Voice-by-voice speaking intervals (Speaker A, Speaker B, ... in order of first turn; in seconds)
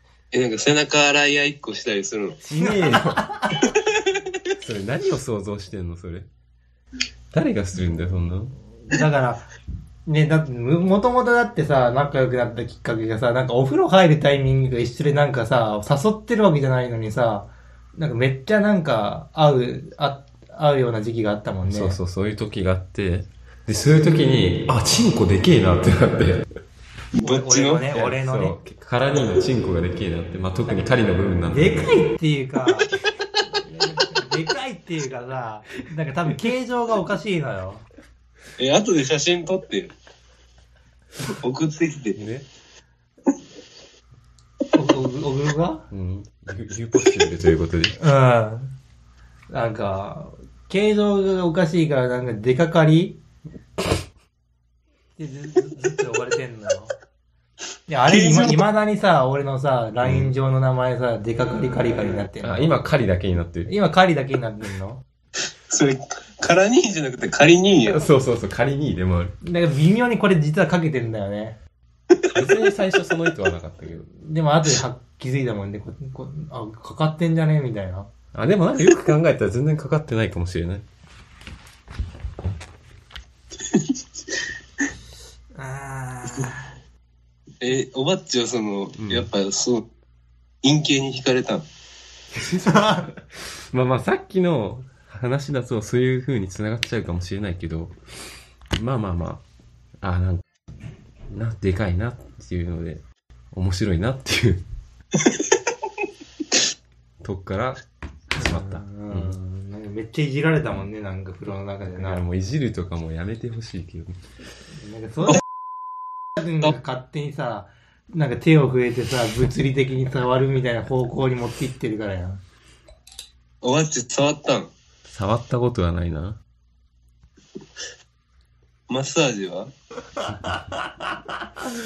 Speaker A: 0.3-2.4, 27.1-27.9, 38.6-39.9, 41.3-42.2, 58.1-58.6, 65.7-68.0, 87.6-89.8, 90.6-91.6, 123.6-124.7, 128.9-129.7
Speaker B: 2.4-3.3, 4.6-6.3, 7.3-8.5, 21.6-26.4, 27.9-32.0, 42.1-42.5, 45.9-48.0, 60.0-60.3, 62.4-63.7, 67.8-69.3, 72.3-74.1, 78.3-80.8, 89.0-89.3, 92.3-93.1, 93.7-97.9, 98.8-99.4, 100.0-100.4, 101.3-104.6, 107.2-107.8, 108.3-109.4, 111.9-114.2, 125.1-126.4
Speaker C: 2.5-3.5, 8.8-9.5, 10.1-22.0, 27.2-28.6, 31.5-32.9, 33.5-37.8, 44.7-45.9, 48.0-48.7, 49.5-53.2, 55.1-56.9, 57.9-62.8, 63.6-65.0, 69.4-71.6, 74.2-78.1, 85.5-86.7, 92.5-93.1, 108.3-112.2, 114.7-115.4, 116.4-122.4